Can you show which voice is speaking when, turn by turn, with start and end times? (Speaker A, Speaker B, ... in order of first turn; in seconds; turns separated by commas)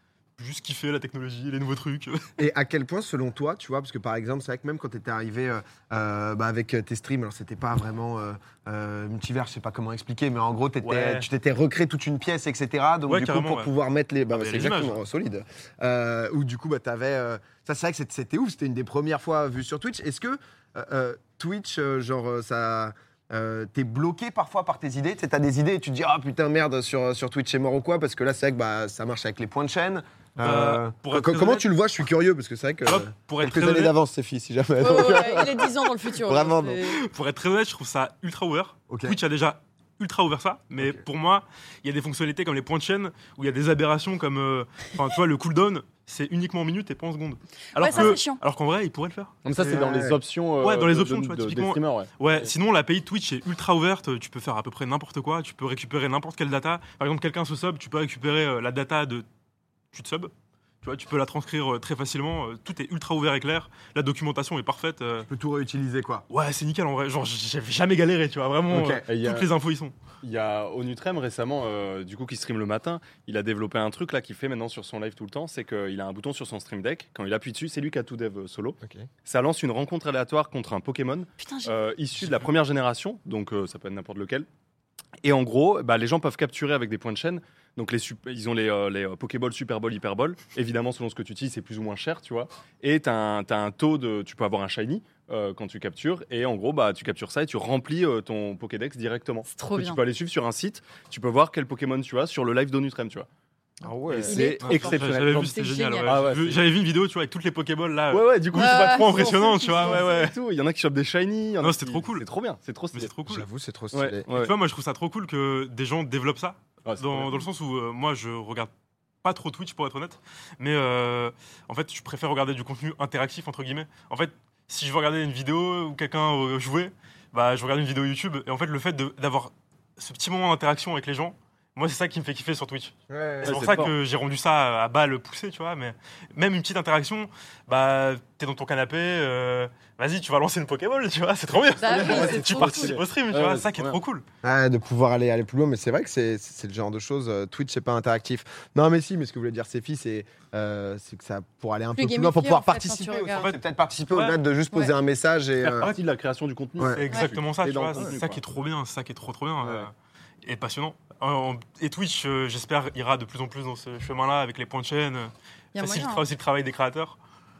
Speaker A: 0.4-2.2, Speaker B: 2.4-35.7, Speaker A: 10.8-11.3, Speaker A: 13.1-13.7, Speaker A: 14.3-15.0, Speaker A: 30.4-31.6, Speaker A: 32.9-33.9, Speaker C: 34.8-37.0, Speaker B: 36.2-36.8, Speaker A: 36.8-49.8, Speaker B: 38.9-39.2, Speaker C: 47.7-48.4, Speaker D: 49.4-52.5, Speaker B: 49.6-50.2, Speaker A: 50.6-59.2, Speaker A: 59.9-60.3, Speaker A: 60.8-65.3, Speaker B: 65.3-66.2, Speaker A: 66.3-69.9, Speaker B: 68.7-69.0, Speaker D: 69.0-69.5, Speaker D: 70.2-84.5, Speaker B: 78.8-79.1, Speaker C: 81.4-81.8, Speaker D: 85.2-103.3, Speaker C: 99.5-100.0, Speaker B: 103.8-104.5, Speaker D: 104.1-106.7, Speaker C: 104.2-106.2, Speaker A: 104.4-110.3, Speaker D: 108.1-113.1, Speaker C: 108.5-110.3, Speaker A: 111.6-112.3, Speaker A: 112.9-113.5, Speaker B: 113.3-114.2, Speaker D: 113.9-114.5, Speaker A: 114.3-118.7, Speaker D: 116.8-117.4, Speaker A: 119.2-144.2, Speaker B: 133.1-133.8, Speaker D: 133.4-133.9, Speaker C: 141.8-143.0, Speaker D: 141.8-144.0, Speaker B: 144.4-155.9, Speaker C: 151.9-153.5, Speaker A: 153.3-154.4, Speaker D: 155.6-158.4, Speaker B: 156.8-157.0, Speaker A: 156.9-167.2, Speaker D: 159.6-159.9, Speaker C: 165.7-166.2